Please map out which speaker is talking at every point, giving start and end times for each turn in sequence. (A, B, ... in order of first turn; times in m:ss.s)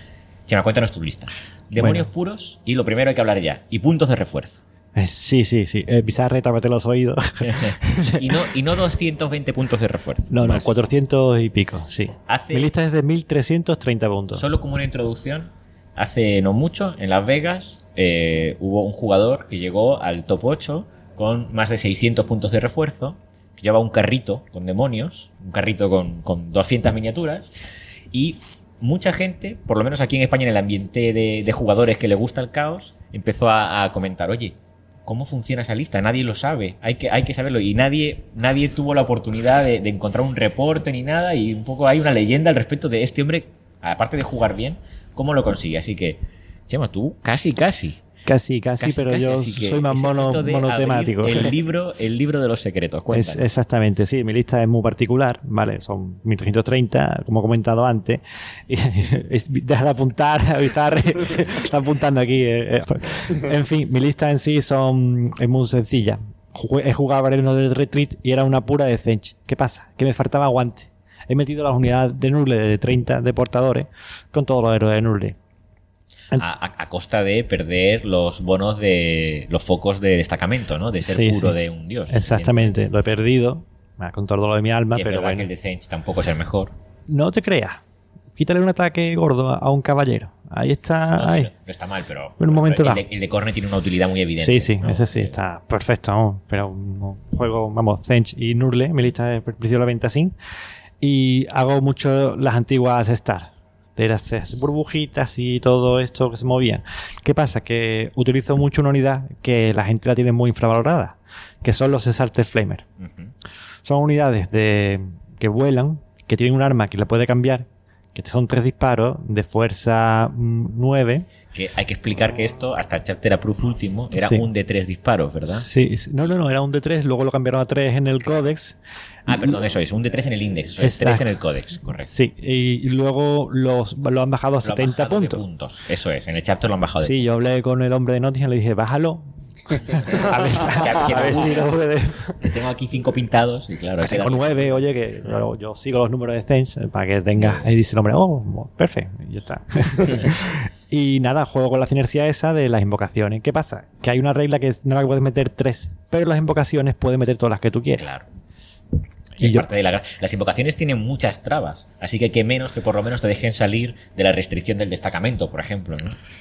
0:00.5-0:04.6 A
0:01.8-0:02.0 B
0:05.0-0:08.2 B
0:07.4-0:10.7 A
0:10.3-0:14.4 B
0:12.3-0:12.7 A
0:14.3-0:27.5 A
0:28.1-0:48.0 A
0:48.3-0:51.5 B
0:48.8-0:53.4 A
0:53.1-1:15.4 B
1:16.4-1:22.7 A
1:21.0-1:21.6 B
1:22.1-1:25.5 B
1:24.9-1:26.7 A
1:27.1-1:27.8 B
1:28.4-1:31.5 B
1:31.2-1:35.3 A
1:32.4-1:33.0 B
1:34.4-1:40.3 B
1:41.0-1:52.8 B
1:53.0-1:53.3 A
1:53.8-2:01.3 B
2:01.5-2:05.7 A
2:04.1-2:04.5 B
2:05.5-2:08.8 B
2:09.3-2:12.1 A
2:10.8-2:11.3 B
2:12.0-2:15.4 B
2:14.6-2:17.3 A
2:17.0-2:22.4 B
2:20.1-2:21.7 A
2:22.4-2:24.8 A
2:24.0-2:38.0 B
2:27.4-2:27.7 A
2:38.0-2:38.3 A
2:39.4-2:46.2 A
2:39.4-2:39.6 B